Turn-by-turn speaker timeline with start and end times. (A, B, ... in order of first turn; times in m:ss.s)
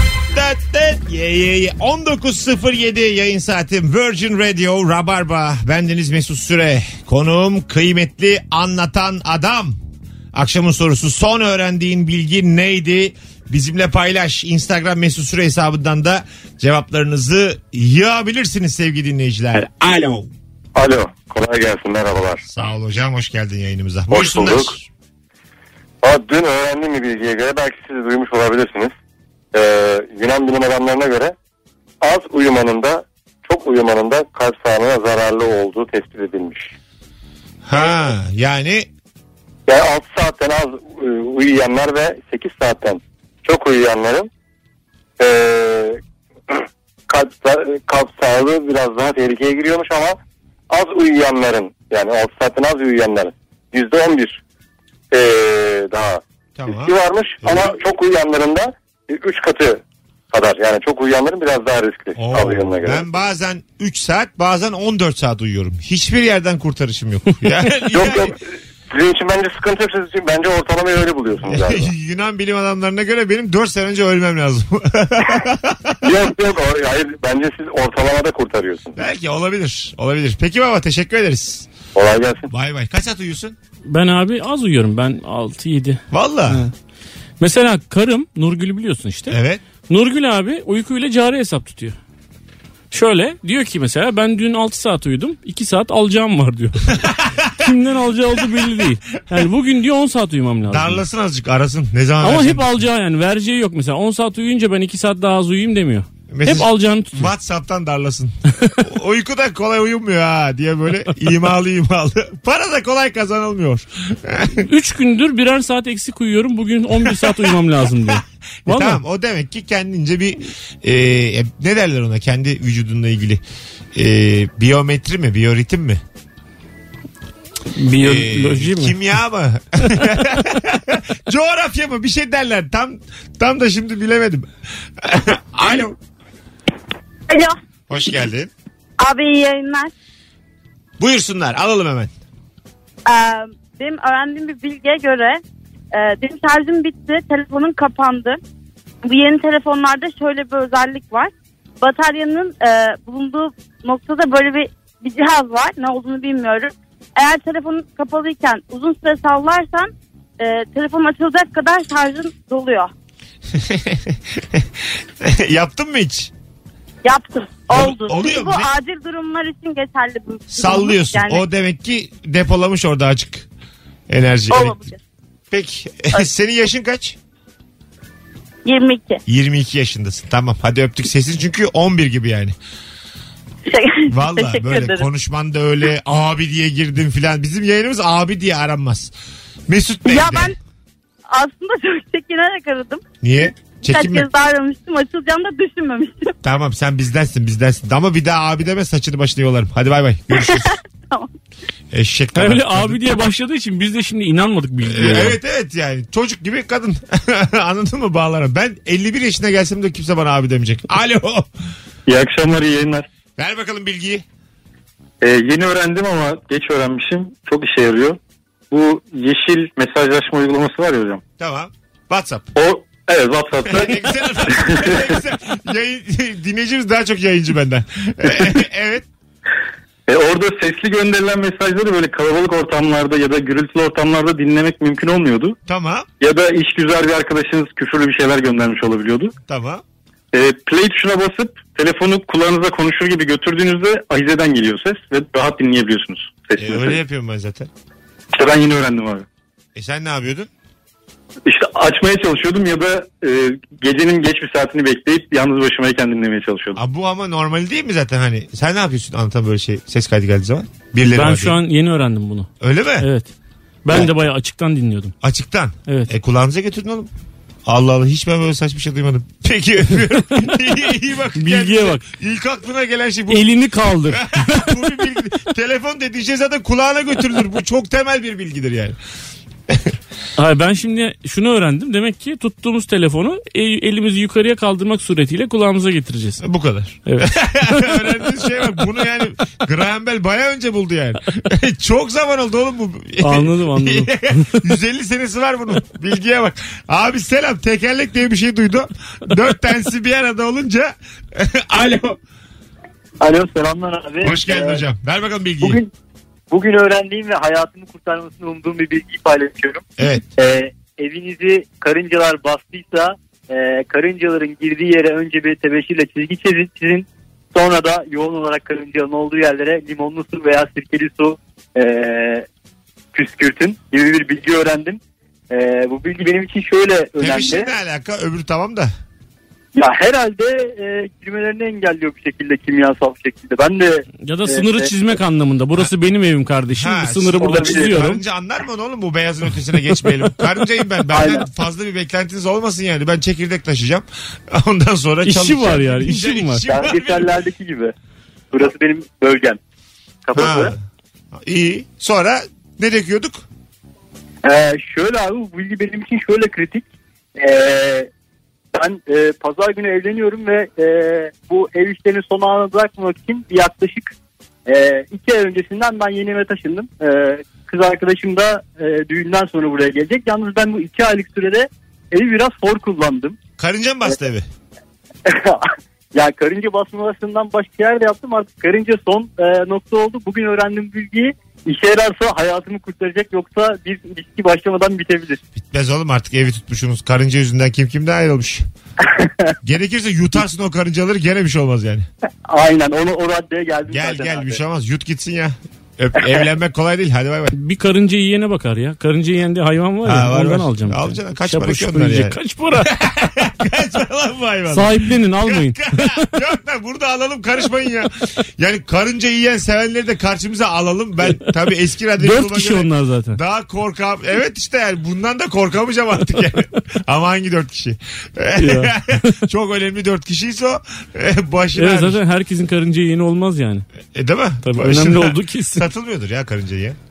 0:00.3-0:09.8 A
0:10.3-0:20.3 A
0:20.8-0:22.4 B
0:22.4-0:24.9 A
0:24.1-0:24.7 B
0:26.0-0:28.9 B
0:29.5-0:31.3 B
0:32.0-0:36.7 B
0:37.6-0:38.9 A
0:39.6-0:44.3 B
0:45.2-0:50.2 B
0:50.7-0:54.4 B
0:55.1-1:03.0 B
0:56.6-0:57.8 A
1:02.2-1:08.4 A
1:07.9-1:11.9 B
1:11.4-1:16.0 A
1:16.0-1:19.0 B
1:19.0-1:21.6 A
1:21.9-1:22.5 B
1:22.5-1:23.6 A
1:23.9-1:26.7 C
1:26.1-1:26.6 A
1:27.4-1:32.0 C
1:29.3-1:29.6 A
1:32.9-1:41.0 C
1:37.0-1:37.7 A
1:38.4-1:38.7 A
1:40.7-1:42.7 A
1:42.2-1:47.3 C
1:46.3-1:54.6 A
1:54.6-1:59.0 C
1:57.0-1:57.5 A
1:58.1-2:03.4 A
2:03.9-2:06.0 A
2:07.8-2:08.9 C
2:08.0-2:16.0 A
2:17.3-2:17.6 D
2:17.9-2:18.5 A
2:19.0-2:19.9 D
2:21.0-2:22.1 A
2:23.0-2:25.4 D
2:25.9-2:28.4 D
2:29.0-2:42.9 D
2:43.5-2:46.3 A
2:47.0-2:51.4 D
2:47.7-2:48.7 A
2:50.5-2:53.5 A
2:54.1-2:54.8 A
2:54.5-2:55.0 D
2:55.5-2:57.2 A
2:58.6-2:59.2 D
2:59.3-3:02.5 A
3:03.7-3:05.0 D
3:04.1-3:09.1 A
3:09.7-3:10.5 A
3:10.0-3:10.6 D
3:11.3-3:13.0 D
3:13.2-3:14.3 A
3:13.8-3:16.3 D
3:16.4-3:20.8 A
3:20.4-3:21.3 D
3:21.9-3:23.0 A
3:22.4-3:25.4 C
3:24.8-3:31.5 A
3:32.1-3:33.0 E
3:33.4-3:34.2 A
3:35.2-3:38.2 E
3:38.7-3:41.2 E
3:41.4-3:42.5 A
3:42.6-3:45.2 E
3:43.7-3:49.0 A
3:50.1-3:55.6 E
3:55.6-3:56.1 A
3:56.2-3:59.3 E
3:59.5-3:59.8 A
4:00.3-4:07.0 E
4:06.6-4:07.7 A
4:08.3-4:09.2 E
4:09.7-4:10.5 A
4:11.4-4:16.8 E
4:16.7-4:21.6 A
4:21.1-4:22.5 C
4:22.6-4:23.1 A
4:23.0-4:23.3 C
4:23.8-4:25.1 C
4:25.2-4:27.1 A
4:27.6-4:33.5 A
4:31.4-4:32.0 C
4:33.3-4:34.9 C
4:34.0-4:39.0 A
4:39.7-4:39.9 A
4:40.4-4:46.4 C
4:46.4-5:02.2 A
4:47.0-4:48.2 C
4:53.2-4:54.6 C
5:03.2-5:04.8 F
5:04.2-5:05.8 A
5:05.6-5:05.9 F
5:06.5-5:09.8 F
5:10.0-5:10.2 A
5:10.4-5:22.5 F
5:23.1-5:27.7 F
5:27.2-5:28.9 A
5:29.7-5:34.9 F
5:34.2-5:38.2 C
5:36.7-5:47.3 A
5:37.4-5:38.0 F
5:41.1-5:41.5 F
5:45.2-5:46.6 C
5:46.7-5:47.9 F
5:48.5-5:49.6 F
5:50.2-5:50.7 F
5:50.3-5:50.8 A
5:51.3-5:53.4 A
5:54.4-5:56.8 F
5:57.4-5:58.1 F
5:58.7-6:04.1 F
6:04.7-6:13.4 F
6:13.6-6:14.4 A
6:15.2-6:25.4 F
6:25.6-6:28.6 A
6:29.6-6:32.1 A
6:32.5-6:34.6 F
6:33.9-6:37.5 A
6:37.5-6:42.9 C
6:40.0-7:02.2 A
6:44.7-6:46.3 C
6:52.2-6:53.4 C
6:58.6-6:59.4 C
7:01.8-7:03.8 C
7:04.1-7:07.0 A
7:04.6-7:05.9 C